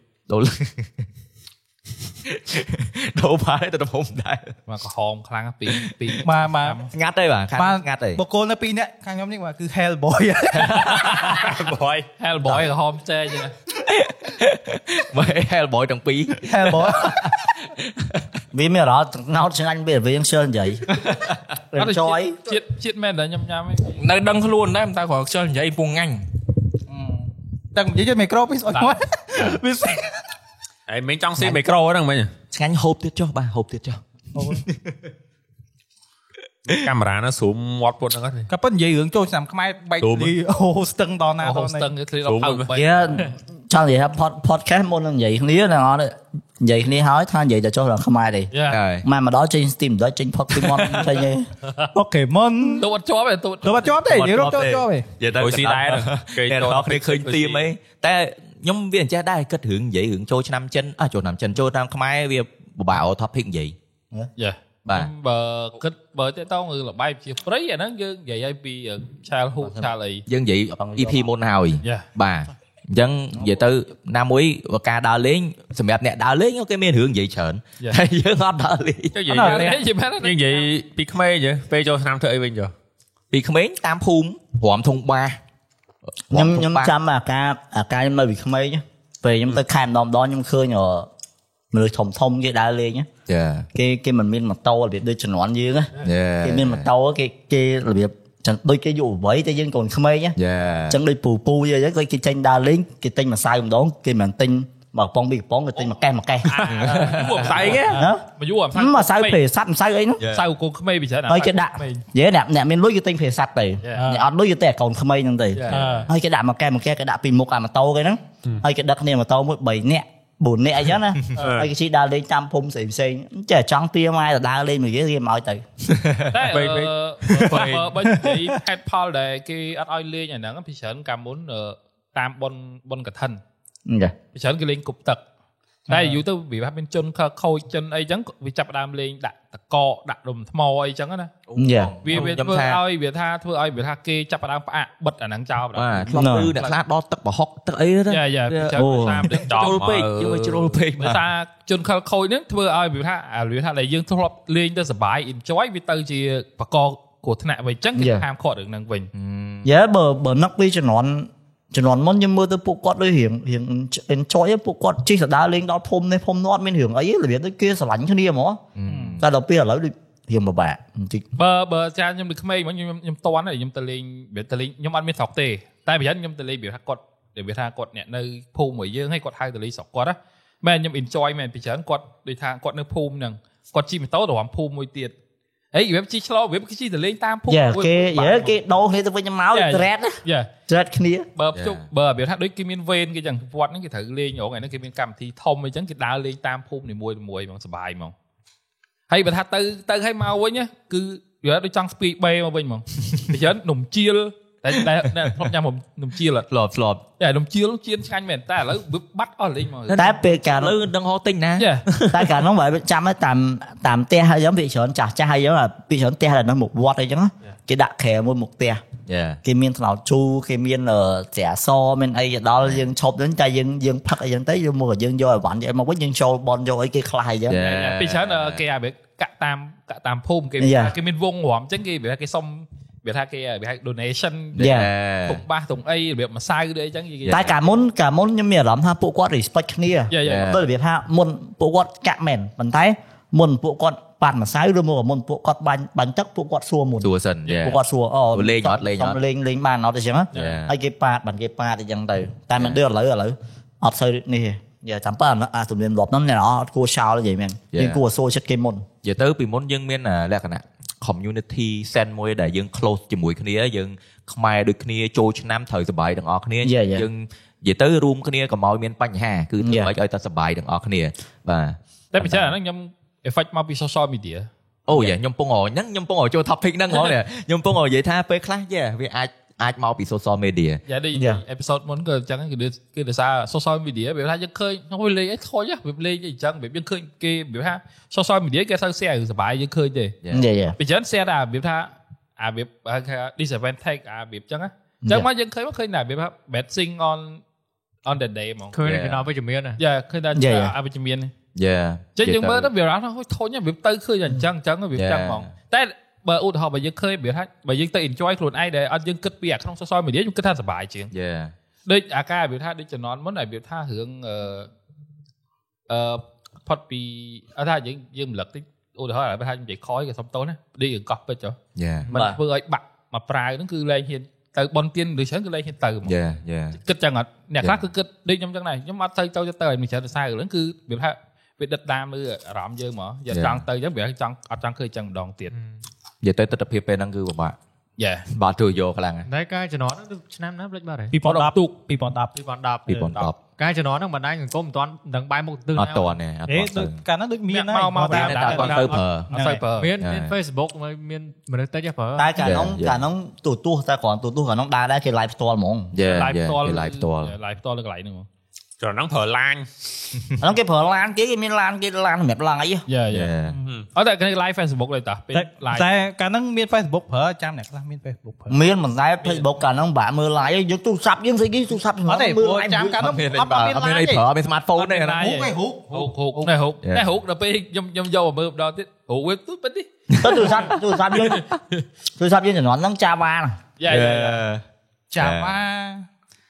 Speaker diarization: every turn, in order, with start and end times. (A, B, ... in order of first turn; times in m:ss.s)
0:00.3-0:01.0 A
0:02.2-0:04.5 A
0:04.7-0:06.9 B
0:05.7-0:06.2 A
0:06.2-0:06.8 C
0:06.9-0:08.2 A
0:07.6-0:10.8 C
0:10.7-0:12.1 D
0:12.2-0:13.5 B
0:13.8-0:18.2 A
0:16.4-0:17.3 C
0:18.5-0:20.9 E
0:21.1-0:21.4 A
0:21.7-0:22.4 E
0:21.8-0:24.0 B
0:24.0-0:26.2 A
0:26.9-0:30.2 C
0:30.9-0:32.3 D
0:32.5-0:34.9 A
0:34.3-0:34.6 C
0:36.7-0:38.5 D
0:38.5-0:41.9 C
0:40.0-0:40.3 D
0:41.4-0:43.2 B
0:42.2-0:42.7 D
0:42.7-0:48.5 E
0:48.5-0:48.8 B
0:48.7-0:49.0 A
0:49.0-0:51.5 E
0:51.9-0:52.9 C
0:52.7-0:54.0 B
0:53.6-0:55.0 C
0:54.0-1:03.7 A
0:55.3-0:57.6 D
1:04.4-1:10.2 B
1:10.3-1:19.2 A
1:19.1-1:22.7 D
1:19.3-1:19.7 C
1:19.3-1:20.6 B
1:23.3-1:25.4 A
1:26.3-1:26.9 A
1:26.3-1:31.1 E
1:31.7-1:33.1 E
1:33.3-1:33.7 A
1:33.7-1:40.4 E
1:36.0-1:36.9 A
1:40.4-1:41.0 A
1:40.9-1:46.6 E
1:46.4-1:49.4 B
1:46.6-1:47.7 A
1:47.4-1:48.0 D
1:47.9-1:50.2 E
1:50.3-1:52.0 B
1:51.3-2:05.6 E
1:54.0-1:54.2 C
1:55.6-1:56.1 B
2:01.4-2:01.7 D
2:05.9-2:06.4 A
2:06.3-2:13.4 B
2:06.5-2:07.9 D
2:13.9-2:14.1 E
2:14.3-2:15.2 B
2:15.9-2:21.3 B
2:15.9-2:16.2 C
2:21.5-2:22.8 A
2:21.6-2:22.0 E
2:22.0-2:26.8 B
2:25.7-2:31.2 A
2:26.1-2:26.5 E
2:28.1-2:29.8 B
2:28.8-2:29.3 E
2:29.6-2:30.7 D
2:31.0-2:39.1 B
2:38.0-2:38.2 E
2:39.1-2:39.7 A
2:39.6-2:48.6 E
2:48.8-2:49.2 A
2:48.9-2:49.2 C
2:49.2-2:51.2 E
2:51.4-3:05.1 B
3:05.7-3:08.5 B
3:07.5-3:11.3 E
3:09.5-3:10.5 B
3:11.4-3:18.1 B
3:11.5-3:11.8 A
3:19.1-3:26.5 B
3:26.5-3:27.0 A
3:27.2-3:30.1 B
3:29.9-3:32.2 A
3:29.9-3:30.8 E
3:31.6-3:31.9 B
3:32.1-3:38.8 E
3:39.1-3:39.4 A
3:39.4-3:47.6 E
3:47.5-3:48.6 A
3:47.6-3:57.5 B
3:50.6-3:51.0 E
3:54.5-3:55.4 A
3:54.6-3:54.9 E
3:57.3-4:18.9 E
4:00.1-4:00.6 B
4:00.2-4:00.6 A
4:07.0-4:07.8 A
4:08.3-4:09.2 A
4:10.3-4:10.6 B
4:10.3-4:10.7 A
4:17.7-4:18.0 A
4:19.0-4:32.5 A
4:26.6-4:27.1 E
4:29.6-4:29.9 E
4:32.1-4:35.1 B
4:34.9-4:40.8 A
4:40.9-4:50.2 B
4:41.1-4:41.4 E
4:50.3-4:50.8 E
4:50.8-4:57.4 B
4:58.0-4:58.7 B
4:58.7-4:59.8 F
4:58.8-4:59.2 A
4:59.8-5:01.3 B
5:00.3-5:00.7 E
5:01.5-5:02.7 A
5:02.2-5:11.1 B
5:05.0-5:05.5 A
5:11.1-5:11.5 A
5:11.9-5:14.7 B
5:15.9-5:21.6 B
5:21.8-5:22.1 A
5:22.1-5:26.1 B
5:22.1-5:22.4 E
5:26.0-5:26.8 A
5:26.8-5:35.5 B
5:33.3-5:33.6 A
5:35.5-5:35.8 F
5:36.2-5:37.6 A
5:38.0-5:38.2 B
5:38.3-5:39.2 A
5:39.2-5:41.2 F
5:41.1-5:42.3 C
5:41.2-5:41.7 B
5:42.3-5:46.1 F
5:42.9-5:43.4 A
5:45.8-5:47.0 A
5:46.5-5:49.6 C
5:47.5-5:49.9 B
5:48.1-5:49.3 A
5:49.8-5:52.3 F
5:50.0-5:50.3 A
5:52.2-5:55.9 E
5:52.4-5:53.0 A
5:55.9-5:57.3 A
5:56.0-5:58.3 B
5:58.8-5:59.7 D
6:00.4-6:02.8 E
6:02.9-6:03.3 B
6:03.1-6:03.6 A
6:03.9-6:05.9 B
6:05.3-6:08.6 C
6:08.5-6:13.0 E
6:12.0-6:14.2 C
6:13.0-6:15.4 A
6:14.7-6:20.5 B
6:15.1-6:16.5 C
6:20.1-6:20.6 A
6:20.2-6:21.4 E
6:22.2-6:23.6 E
6:23.8-6:24.4 B
6:23.9-6:24.6 A
6:25.1-6:26.0 C
6:25.2-6:25.6 A